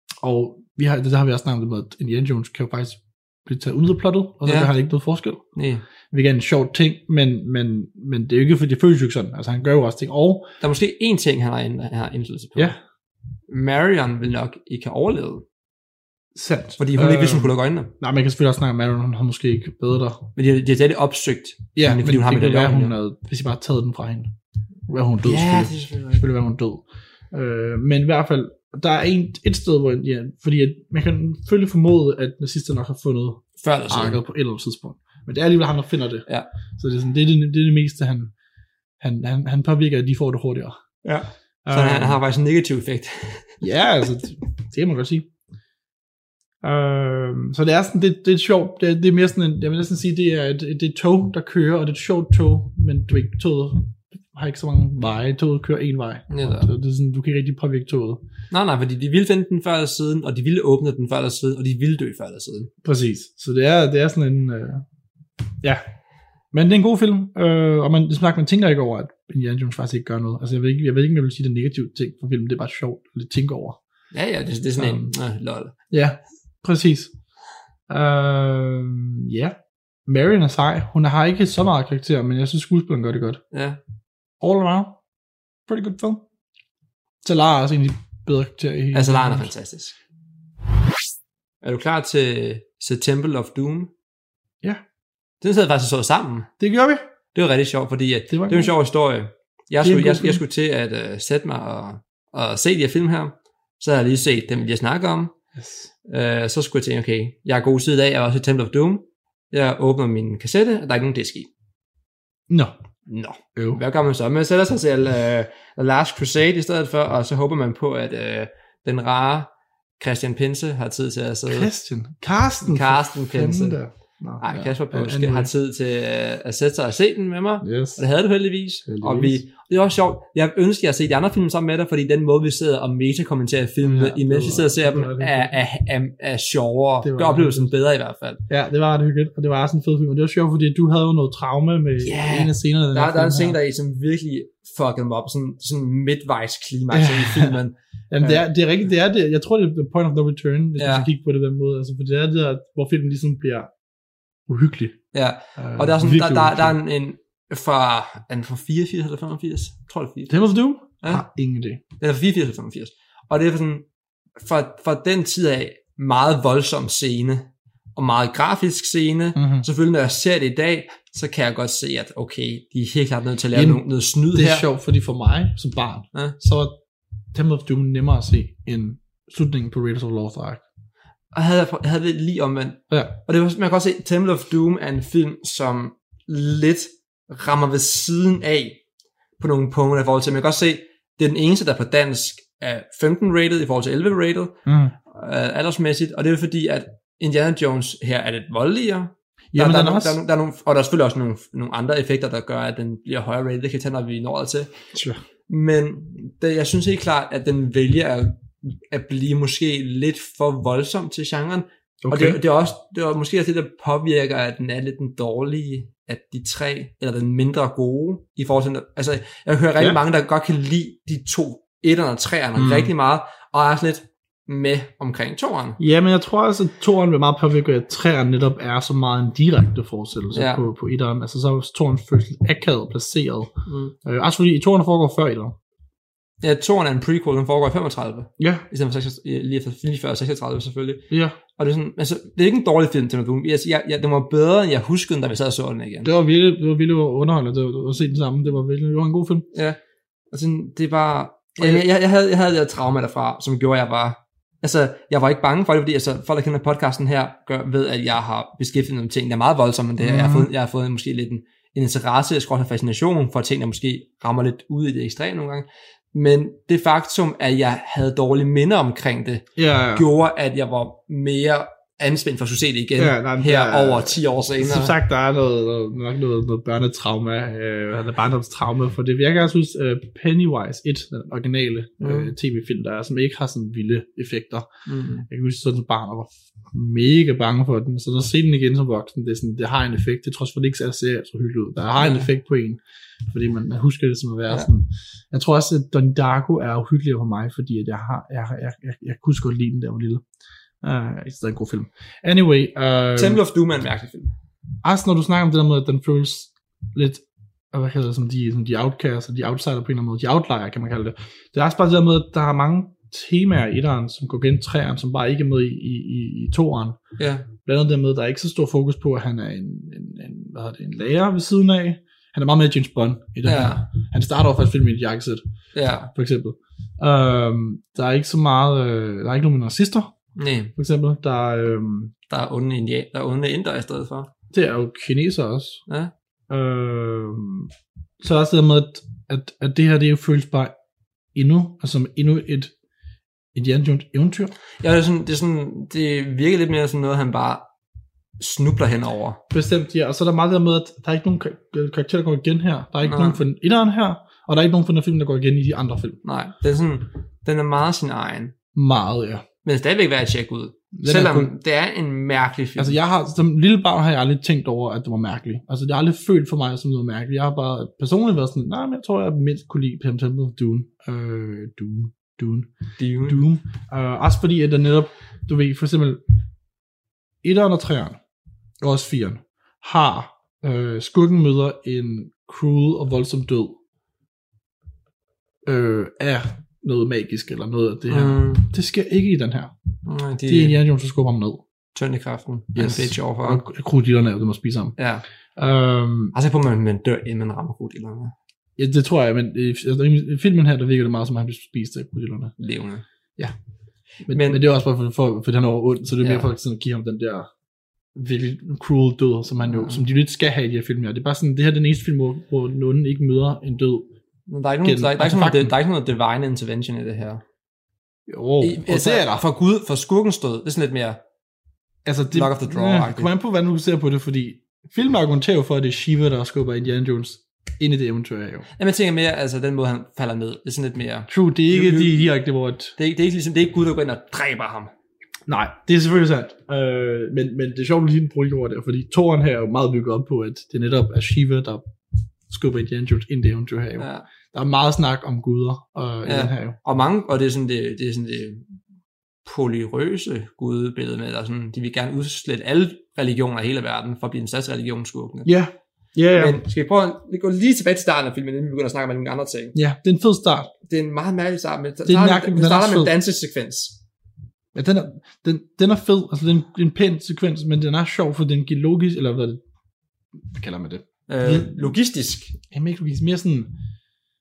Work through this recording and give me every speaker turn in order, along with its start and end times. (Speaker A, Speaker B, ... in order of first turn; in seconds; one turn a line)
Speaker A: 0.2-5.4
Speaker B: 4.4-4.7
Speaker B: 5.5-5.8
Speaker A: 6.1-10.5
Speaker B: 10.6-12.8
Speaker B: 13.5-15.4
Speaker A: 16.3-20.3
Speaker B: 16.8-17.9
Speaker B: 20.4-23.0
Speaker A: 21.7-24.3
Speaker A: 24.9-36.2
Speaker B: 25.2-26.2
Speaker B: 33.6-34.2
Speaker A: 36.8-38.3
Speaker A: 39.0-40.8
Speaker B: 41.0-43.6
Speaker A: 41.6-42.2
Speaker A: 43.6-45.3
Speaker A: 46.6-58.2
Speaker B: 56.3-56.7
Speaker B: 58.5-62.7
Speaker A: 62.8-64.8
Speaker A: 66.5-73.8
Speaker B: 74.1-75.8
Speaker A: 74.7-75.1
Speaker A: 75.9-77.1
Speaker A: 77.9-83.4
Speaker B: 83.5-83.8
Speaker A: 84.4-85.0
Speaker A: 85.7-86.2
Speaker A: 87.2-89.5
Speaker B: 88.9-89.9
Speaker B: 91.6-93.9
Speaker B: 95.4-96.5
Speaker A: 96.6-97.0
Speaker B: 97.3-105.3
Speaker A: 98.3-98.7
Speaker A: 99.8-100.4
Speaker A: 105.5-105.9
Speaker B: 106.0-111.5
Speaker A: 112.5-112.7
Speaker B: 113.1-121.7
Speaker A: 113.5-113.8
Speaker A: 121.5-125.5
Speaker B: 122.6-123.8
Speaker B: 124.4-138.4
Speaker A: 127.6-128.0
Speaker A: 128.8-129.4
Speaker A: 133.8-135.6
Speaker A: 137.0-137.7
Speaker A: 138.5-143.6
Speaker B: 142.0-148.4
Speaker A: 146.9-147.6
Speaker A: 148.1-153.7
Speaker B: 150.8-151.1
Speaker A: 154.5-155.0
Speaker B: 155.1-160.4
Speaker A: 155.6-156.8
Speaker A: 160.3-161.8
Speaker B: 162.0-163.8
Speaker B: 164.4-174.7
Speaker A: 169.3-169.7
Speaker A: 173.5-176.8
Speaker A: 177.3-180.6
Speaker B: 181.3-188.8
Speaker B: 189.4-194.6
Speaker A: 194.7-194.9
Speaker B: 195.1-204.7
Speaker A: 199.5-200.2
Speaker A: 204.9-205.2
Speaker B: 205.5-225.8
Speaker A: 212.0-212.4
Speaker A: 222.6-222.9
Speaker A: 225.8-233.5
Speaker B: 230.3-230.7
Speaker B: 233.7-233.9
Speaker A: 234.0-235.6
Speaker B: 236.4-246.1
Speaker A: 238.4-238.6
Speaker A: 241.1-241.4
Speaker A: 246.0-249.5
Speaker B: 249.5-249.8
Speaker B: 250.3-274.9
Speaker A: 251.6-251.8
Speaker A: 260.0-260.5
Speaker A: 269.6-270.1
Speaker A: 273.0-284.7
Speaker B: 282.0-282.3
Speaker B: 284.9-285.2
Speaker A: 285.2-300.2
Speaker B: 292.0-292.2
Speaker A: 300.8-303.4
Speaker B: 303.1-304.3
Speaker A: 304.8-317.0
Speaker B: 317.2-317.5
Speaker A: 317.6-325.4
Speaker B: 323.4-323.8
Speaker B: 325.7-326.1
Speaker A: 326.1-330.1
Speaker B: 330.4-330.7
Speaker A: 330.7-332.1
Speaker B: 332.3-334.3
Speaker A: 334.5-335.8
Speaker A: 336.5-340.7
Speaker A: 341.3-342.7
Speaker A: 343.5-344.5
Speaker B: 344.8-347.7
Speaker B: 348.4-349.4
Speaker A: 349.5-356.2
Speaker B: 353.0-353.4
Speaker B: 356.2-358.5
Speaker A: 358.7-359.4
Speaker B: 359.6-363.0
Speaker A: 360.9-361.5
Speaker A: 362.8-372.7
Speaker B: 373.0-373.4
Speaker A: 373.2-376.2
Speaker A: 377.4-378.2
Speaker A: 378.8-383.8
Speaker A: 385.6-389.7
Speaker B: 388.1-388.7
Speaker B: 390.1-390.8
Speaker A: 390.5-391.6
Speaker B: 391.9-393.6
Speaker A: 392.7-394.9
Speaker B: 395.0-395.2
Speaker A: 395.6-396.3
Speaker B: 396.3-398.3
Speaker A: 398.8-402.5
Speaker B: 402.6-403.0
Speaker A: 404.2-407.5
Speaker B: 404.3-404.6
Speaker B: 406.2-406.5
Speaker A: 408.1-414.1
Speaker B: 414.5-417.4
Speaker A: 414.8-415.8
Speaker A: 418.3-419.4
Speaker B: 418.6-421.2
Speaker A: 422.0-428.7
Speaker B: 422.3-423.3
Speaker B: 428.8-432.3
Speaker A: 431.3-432.9
Speaker B: 433.0-434.9
Speaker A: 435.5-441.9
Speaker A: 442.5-446.8
Speaker B: 444.0-444.3
Speaker B: 446.2-448.6
Speaker B: 449.4-455.5
Speaker A: 455.4-456.6
Speaker B: 456.3-459.7
Speaker A: 459.7-460.7
Speaker B: 460.9-464.0
Speaker A: 462.1-463.1
Speaker A: 464.7-469.6
Speaker A: 470.4-471.9
Speaker B: 471.3-472.6
Speaker A: 472.7-473.8